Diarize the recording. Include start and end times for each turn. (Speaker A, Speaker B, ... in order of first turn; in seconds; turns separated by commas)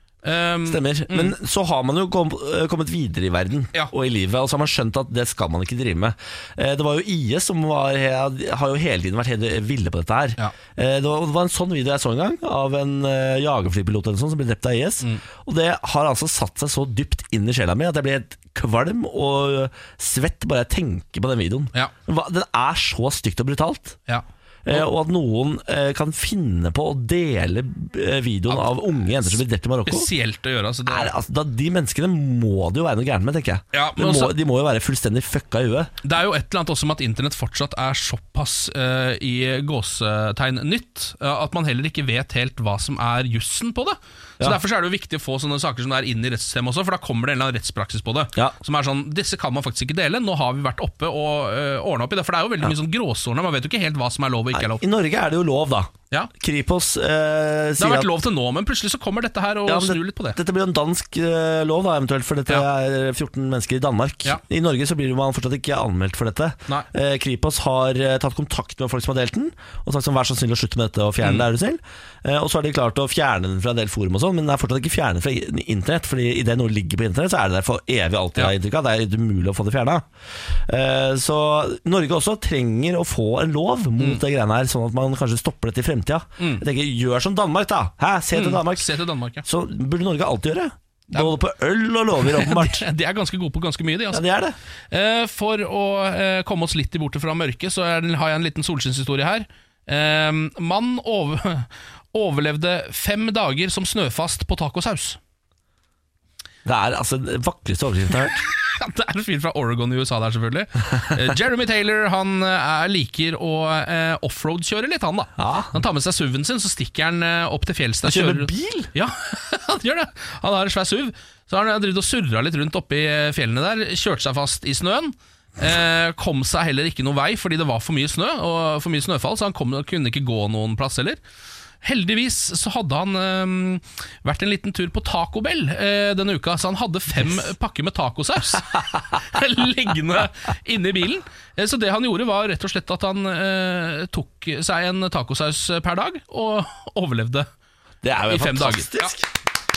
Speaker A: 0.2-1.3, Speaker B: 0.7-24.0, Speaker A: 24.1-24.9, Speaker B: 24.6-30.1, Speaker A: 28.5-31.1, Speaker B: 30.9-35.9, Speaker A: 33.7-34.3, Speaker A: 36.0-54.8, Speaker B: 54.5-58.1, Speaker A: 57.8-60.4, Speaker B: 59.6-80.1, Speaker B: 80.7-88.9, Speaker A: 86.4-86.6, Speaker A: 88.3-89.4, Speaker B: 89.4-92.8, Speaker A: 92.2-94.2, Speaker B: 94.1-94.5, Speaker A: 94.9-105.2, Speaker B: 106.6-108.4, Speaker A: 108.4-131.2, Speaker B: 115.4-115.8, Speaker B: 118.0-118.9, Speaker A: 131.8-147.5, Speaker B: 148.0-149.3, Speaker A: 148.3-149.1